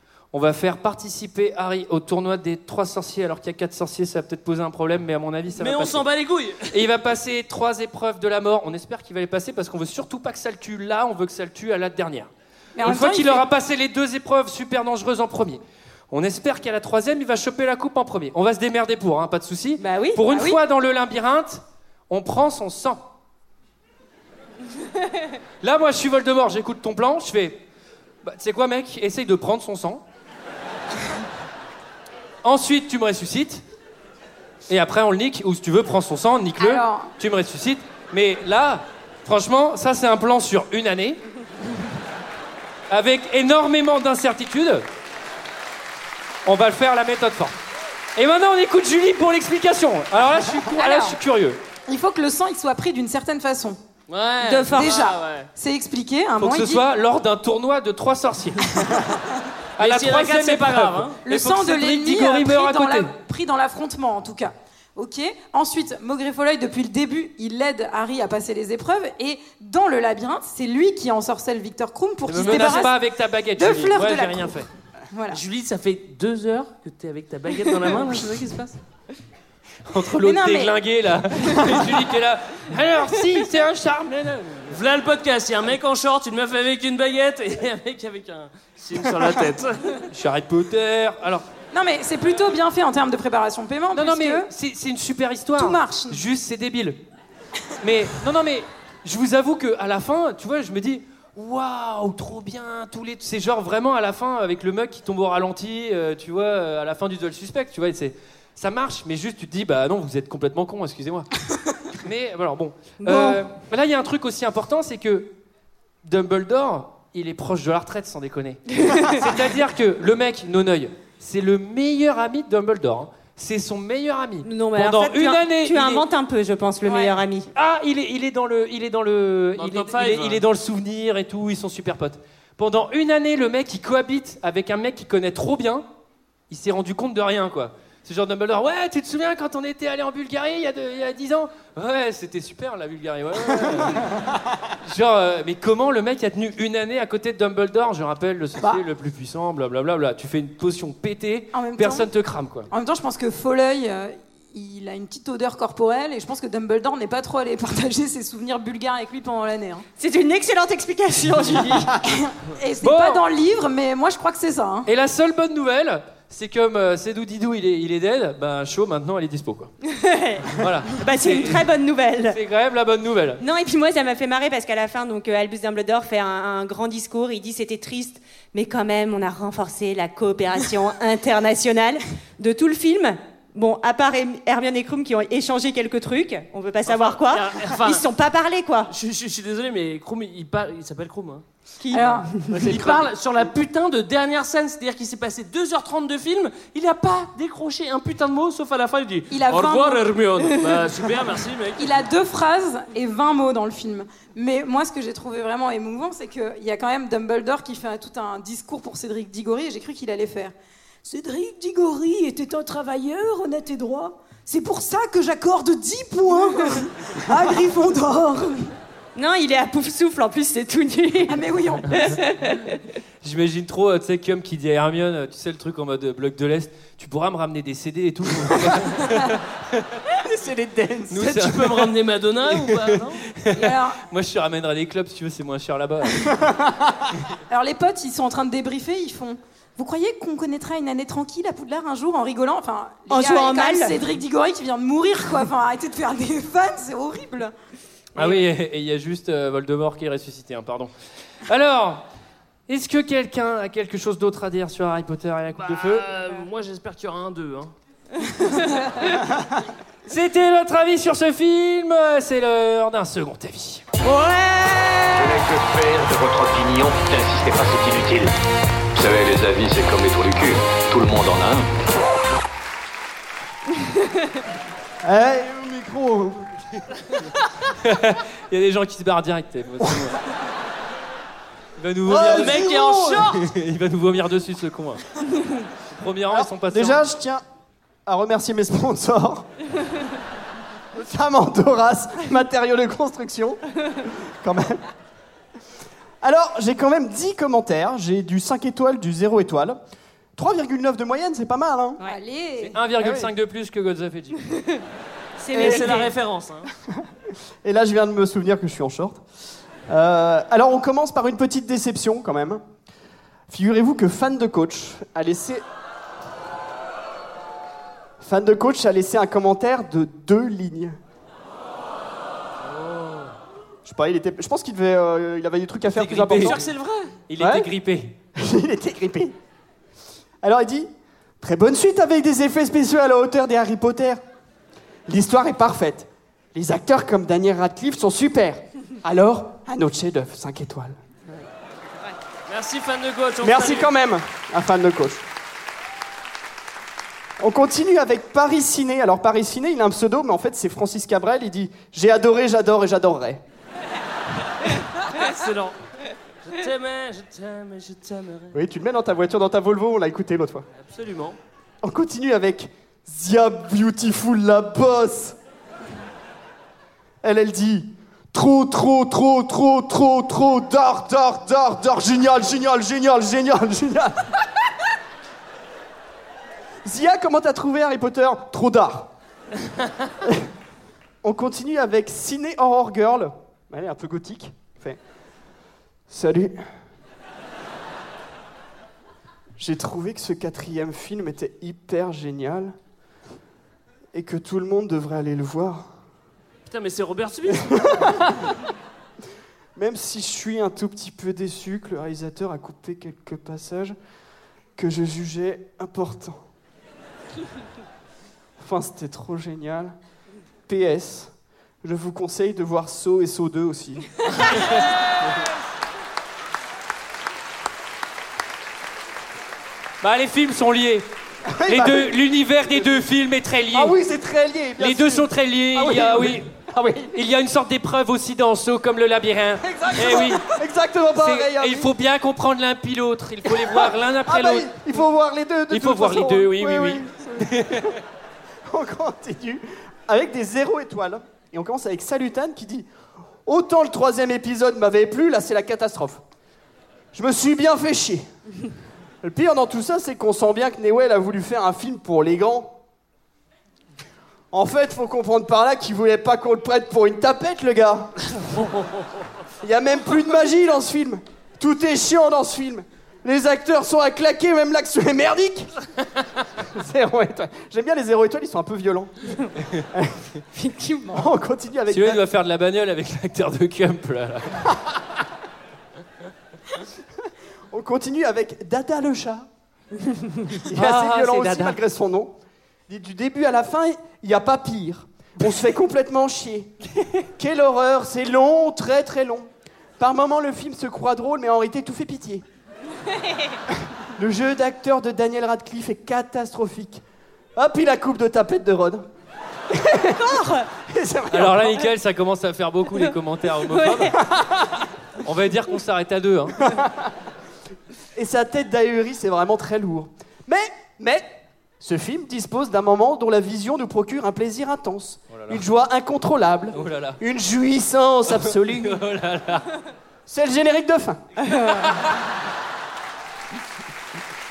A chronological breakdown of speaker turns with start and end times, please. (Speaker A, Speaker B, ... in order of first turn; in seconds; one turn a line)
Speaker A: 0.3-6.1
Speaker B: 5.6-6.8
Speaker A: 6.7-15.6
Speaker C: 12.8-13.4
Speaker A: 16.1-23.0
Speaker D: 19.8-20.2
Speaker C: 20.3-20.6
Speaker A: 25.6-27.6
Speaker A: 28.2-30.0
Speaker A: 32.4-33.6
Speaker A: 34.7-41.2
Speaker C: 36.6-37.1
Speaker A: 42.9-44.8
Speaker A: 46.5-47.5
Speaker A: 48.2-51.6
Speaker C: 50.8-51.2
Speaker C: 51.9-53.8
Speaker B: 54.1-55.5
Speaker D: 54.4-55.0
Speaker C: 54.7-56.8
Speaker A: 56.4-58.8
Speaker B: 59.8-61.2
Speaker A: 59.8-63.1
Speaker C: 61.2-73.0
Speaker A: 72.3-74.7
Speaker C: 73.6-75.4
Speaker B: 75.3-78.8
Speaker A: 79.9-84.8
Speaker C: 80.2-80.7
Speaker C: 81.4-81.9
Speaker B: 84.7-90.0
Speaker A: 90.1-91.5
Speaker C: 91.7-94.5
Speaker A: 93.9-97.0
Speaker C: 95.6-96.2
Speaker A: 97.8-111.4
Speaker A: 111.9-115.3
Speaker D: 113.0-113.4
Speaker A: 116.0-126.0
Speaker D: 124.4-127.5
Speaker C: 126.8-127.2
Speaker A: 127.5-135.8
Speaker B: 129.6-130.4
Speaker A: 136.5-144.2
Speaker A: 144.9-152.7
Speaker C: 151.5-152.1
Speaker C: 152.7-159.8
Speaker D: 160.0-162.0
Speaker C: 162.0-164.9
Speaker A: 162.8-163.2
Speaker A: 164.9-169.7
Speaker D: 169.9-172.4
Speaker A: 170.5-171.7
Speaker A: 172.3-173.4
Speaker D: 173.4-188.9
Speaker B: 186.9-188.0
Speaker B: 188.9-191.4
Speaker D: 191.8-192.8
Speaker C: 191.9-192.3
Speaker E: 192.5-193.1
Speaker B: 192.6-202.0
Speaker C: 199.3-200.7
Speaker C: 201.8-210.5
Speaker C: 211.1-218.7
Speaker D: 219.2-222.8
Speaker C: 221.3-221.9
Speaker A: 223.2-230.0
Speaker E: 230.2-231.4
Speaker A: 231.1-231.9
Speaker B: 231.2-233.2
Speaker A: 232.5-236.3
Speaker C: 233.5-234.0
Speaker E: 236.2-237.0
Speaker C: 237.5-247.5
Speaker D: 243.1-244.0
Speaker A: 248.2-250.9
Speaker A: 251.5-252.0
Speaker A: 252.7-256.1
Speaker B: 255.5-257.7
Speaker A: 260.1-263.9
Speaker D: 264.0-265.0
Speaker F: 265.1-268.3
Speaker F: 268.9-271.7
Speaker E: 275.0-276.6
Speaker A: 277.8-280.2
Speaker A: 281.8-285.0
Speaker E: 282.1-283.2
Speaker B: 282.1-283.5
Speaker A: 285.9-287.1
Speaker E: 286.3-287.4
Speaker E: 288.1-289.5
Speaker E: 290.9-294.8
Speaker E: 296.2-299.8
Speaker E: 300.4-302.0
Speaker D: 302.0-302.7
Speaker C: 302.0-302.8
Speaker A: 302.7-304.4
Speaker E: 303.0-303.3
Speaker D: 305.4-306.1
Speaker B: 305.5-306.7
Speaker E: 307.6-309.2
Speaker E: 309.9-312.6
Speaker E: 313.5-315.6
Speaker E: 318.2-321.0
Speaker B: 322.7-323.3
Speaker E: 323.9-326.6
Speaker A: 325.9-326.7
Speaker B: 326.4-327.2
Speaker A: 327.2-328.1
Speaker E: 327.4-327.7
Speaker E: 328.4-329.3
Speaker E: 330.4-330.9
Speaker E: 331.4-334.2
Speaker E: 335.1-341.0
Speaker B: 342.5-343.9
Speaker E: 343.4-345.2
Speaker E: 347.4-353.4
Speaker B: 355.1-355.8
Speaker B: 356.4-358.6
Speaker E: 358.5-360.7
Speaker B: 360.7-361.4
Speaker E: 361.8-365.4
Speaker E: 367.2-374.3
Speaker E: 376.8-379.1
Speaker E: 381.2-385.0
Speaker E: 386.1-386.6
Speaker E: 389.6-392.8
Speaker E: 394.1-395.9
Speaker B: 396.7-398.2
Speaker E: 397.6-398.5
Speaker E: 399.8-403.9
Speaker E: 404.8-406.4
Speaker E: 408.6-409.9
Speaker E: 410.7-411.3
Speaker E: 411.8-414.8
Speaker A: 420.0-421.1
Speaker E: 421.5-422.2
Speaker A: 421.7-424.0
Speaker E: 423.7-427.2
Speaker A: 424.8-426.5
Speaker A: 427.1-430.4
Speaker E: 429.6-431.9
Speaker A: 431.2-434.8
Speaker E: 433.5-438.0
Speaker A: 435.7-437.9
Speaker E: 438.7-442.9
Speaker E: 443.5-446.2
Speaker E: 447.1-448.3
Speaker E: 449.2-452.8
Speaker E: 454.5-458.2
Speaker E: 459.6-465.7
Speaker E: 466.6-469.1
Speaker E: 469.9-470.2
Speaker D: 470.5-471.3
Speaker E: 471.1-472.2
Speaker A: 471.9-474.7
Speaker E: 477.7-479.5
Speaker E: 480.6-482.4
Speaker A: 480.8-481.8
Speaker E: 482.9-486.7
Speaker E: 487.4-489.5
Speaker E: 490.0-492.4
Speaker D: 493.3-493.6
Speaker E: 494.2-497.0
Speaker E: 497.6-499.1
Speaker E: 499.7-500.3
Speaker D: 500.2-500.7
Speaker E: 500.8-501.9
Speaker A: 501.3-504.2
Speaker D: 503.7-504.1
Speaker E: 504.2-504.9
Speaker A: 505.2-506.6
Speaker E: 506.6-507.1
Speaker E: 508.2-519.0
Speaker A: 515.3-515.6
Speaker A: 516.7-517.2
Speaker A: 518.7-519.7
Speaker E: 520.3-521.2